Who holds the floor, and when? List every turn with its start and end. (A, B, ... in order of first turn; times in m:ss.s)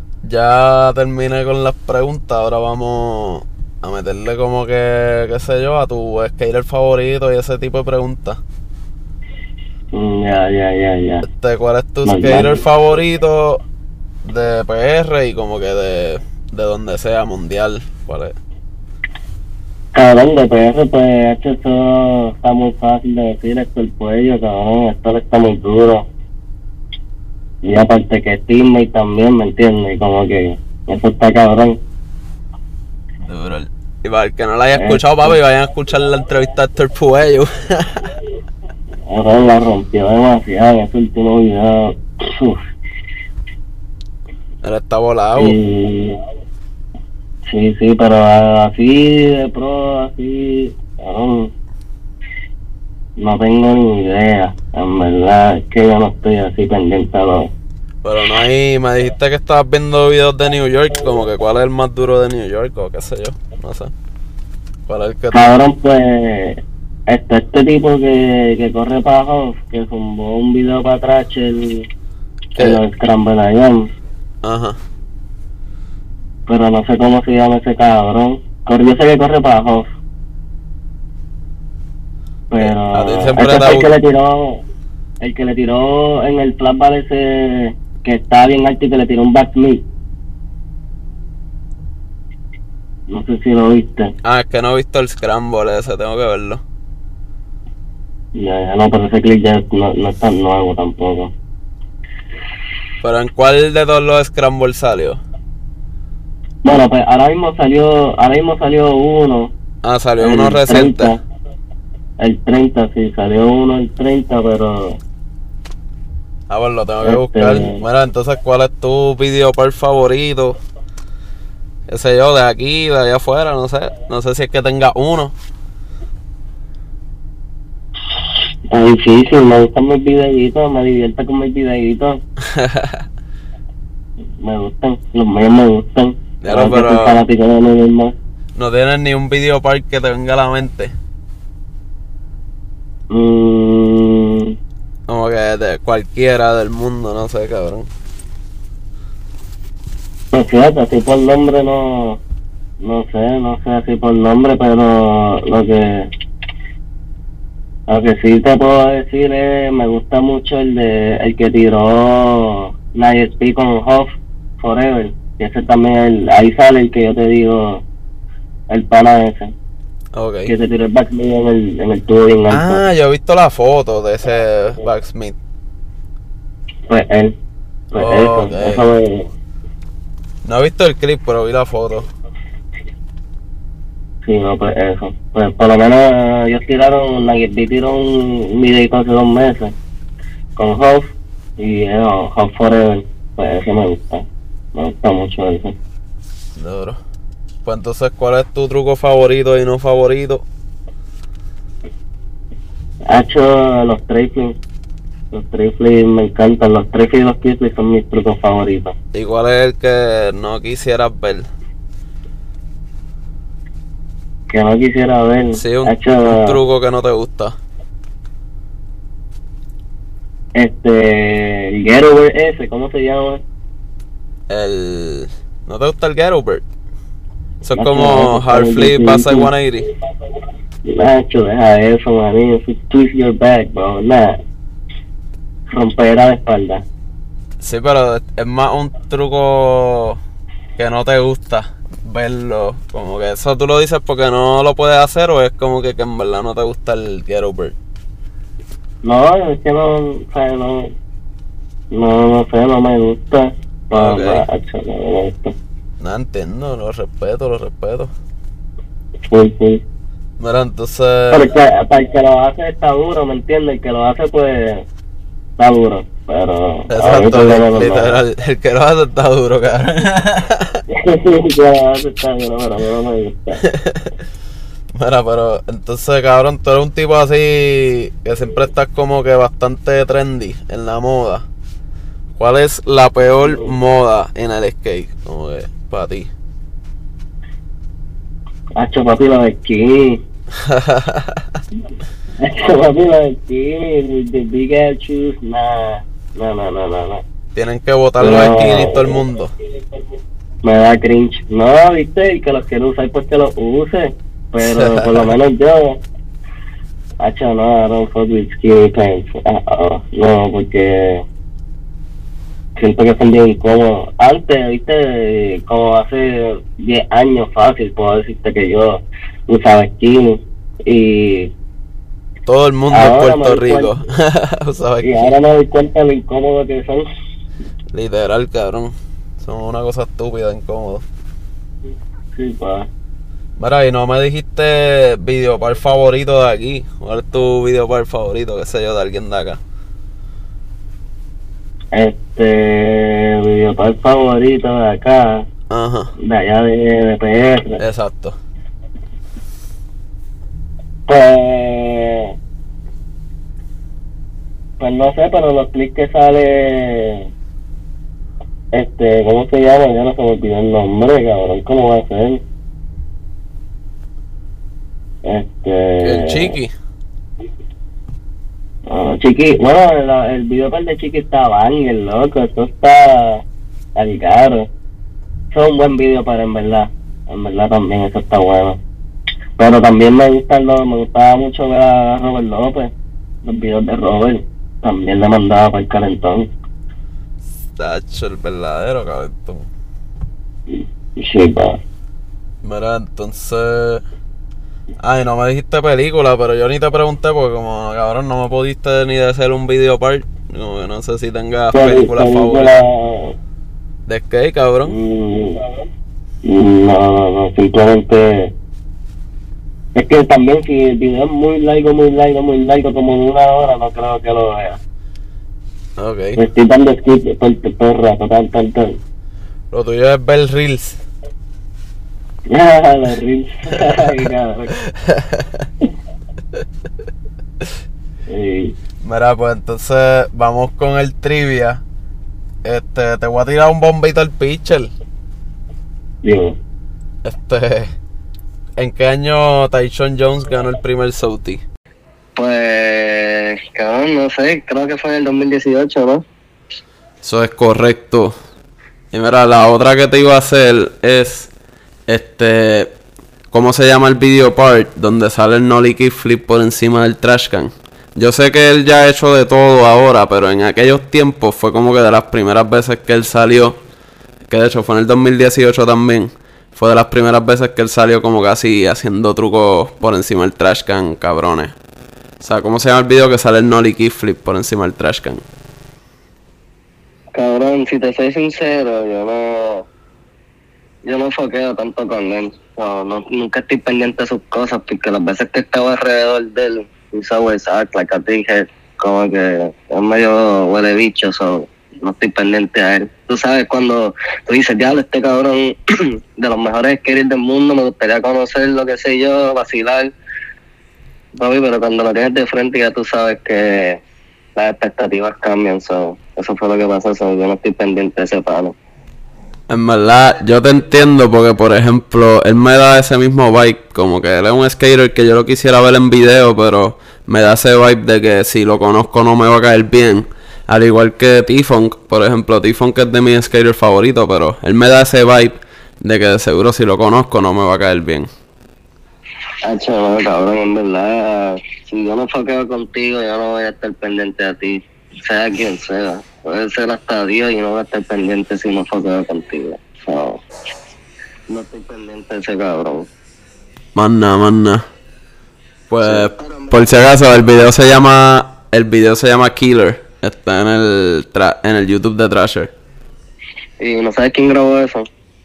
0:00.3-0:08.4 A
0:09.9-0:11.2 B
0:11.2-0:13.6 A
0:12.0-0:12.6 B
0:14.2-0:18.4 A
0:19.9-0:26.1 B
0:27.7-0:31.8 B
0:33.2-0:38.1 A
0:34.7-0:35.4 B
0:39.1-0:42.6 B
0:44.6-0:45.6 A
0:45.4-0:46.2 B
0:47.4-0:51.5 B
0:53.2-0:57.5 B
0:58.0-1:03.9 A
1:04.9-1:05.5 A
1:05.3-1:11.9 B
1:12.6-1:12.8 A
1:12.6-1:13.9 B
1:14.4-1:14.8 A
1:16.5-1:19.9 B
1:22.5-1:24.6 B
1:22.6-1:23.9 A
1:25.2-1:29.8 B
1:33.1-1:34.1 B
1:34.2-1:36.6 A
1:38.4-1:41.3 B
1:43.0-1:45.2 A
1:46.6-1:49.5 B
1:49.8-1:51.1 A
1:50.2-1:51.2 B
1:52.2-1:55.0 B
1:56.5-2:00.6 A
1:57.0-1:57.8 B
2:01.9-2:05.3 A
2:08.7-2:12.2 B
2:12.5-2:13.0 A
2:14.4-2:18.1 B
2:16.4-2:17.2 A
2:18.6-2:20.9 A
2:23.1-2:24.6 B
2:25.1-2:27.9 A
2:30.3-2:32.2 B
2:32.8-2:36.1 B
2:37.9-2:47.8 B
2:48.7-2:49.5 B
2:50.2-2:50.5 A
2:50.4-2:52.8 B
2:52.5-2:55.4 A
2:56.9-2:57.4 B
2:57.9-2:59.3 B
2:58.0-2:58.8 A
3:00.4-3:02.1 A
3:04.2-3:09.7 B
3:10.6-3:15.7 B
3:16.6-3:17.0 A
3:17.6-3:20.4 A
3:23.1-3:24.6 B
3:25.3-3:29.0 B
3:29.1-3:31.5 A
3:34.5-3:36.6 B
3:35.5-3:37.6 A
3:40.6-3:43.4 B
3:44.5-3:46.6 A
3:47.6-3:49.9 A
3:47.8-3:49.5 B
3:50.9-3:54.4 B
3:55.7-3:56.8 B
3:57.6-4:00.2 A
4:00.8-4:07.8 A
4:09.0-4:10.9 B
4:11.9-4:15.6 B
4:13.9-4:14.4 A
4:16.0-4:18.1 A
4:19.3-4:19.8 B
4:20.4-4:21.5 A
4:21.3-4:24.8 B
4:25.6-4:28.2 B
4:26.9-4:30.8 A
4:30.9-4:33.6 B
4:33.7-4:34.1 A
4:35.0-4:41.4 A
4:42.4-4:46.3 A
4:48.8-4:50.2 B
4:50.6-4:51.4 A
4:52.4-4:57.2 B
4:57.6-4:59.5 A
4:58.2-4:59.2 B
5:00.6-5:06.0 B
5:04.6-5:05.3 A
5:07.2-5:11.2 B
5:12.8-5:21.5 B
5:22.5-5:25.4 A
5:22.9-5:23.9 B
5:25.0-5:27.1 B
5:27.9-5:31.0 A
5:32.4-5:32.9 B
5:33.6-5:39.6 A
5:41.9-5:45.4 B
5:45.7-5:46.1 A
5:46.2-5:47.8 B
5:47.8-5:48.4 A
5:51.1-5:52.4 B
5:54.8-5:57.3 B
5:58.7-6:02.4 B
6:05.2-6:06.6 B
6:06.0-6:06.7 A
6:08.9-6:13.4 B
6:14.0-6:14.7 B
6:15.5-6:18.8 B
6:19.6-6:22.9 B
6:23.4-6:26.5 B
6:27.7-6:29.7 A
6:30.7-6:31.8 B
6:32.6-6:34.0 A
6:35.0-6:42.7 A
6:41.7-6:43.4 B
6:44.1-6:45.0 A
6:44.8-6:45.6 B
6:46.4-6:48.5 B
6:50.0-6:54.8 B
6:56.0-6:56.4 A
6:56.4-6:59.0 B
6:59.7-7:01.0 A
7:02.5-7:04.7 B
7:04.8-7:05.7 A
7:08.3-7:08.7 B
7:09.0-7:11.8 A
7:12.6-7:14.9 A
7:16.2-7:16.6 B
7:17.2-7:17.9 A
7:18.8-7:21.6 A
7:22.4-7:26.2 B
7:27.2-7:28.3 A
7:29.1-7:31.5 A
7:32.1-7:32.9 A
7:33.5-7:43.8 A
7:44.5-7:51.7 A
7:52.4-7:55.4 A
7:57.4-7:59.9 B
8:01.0-8:20.1 B
8:21.4-8:24.0 B
8:24.6-8:28.7 B
8:29.7-8:48.3 A
8:49.6-9:00.4 B
9:01.5-9:03.1 B
9:04.0-9:04.8 A
9:05.9-9:12.7 A
9:06.0-9:07.1 B
9:13.8-9:15.1 B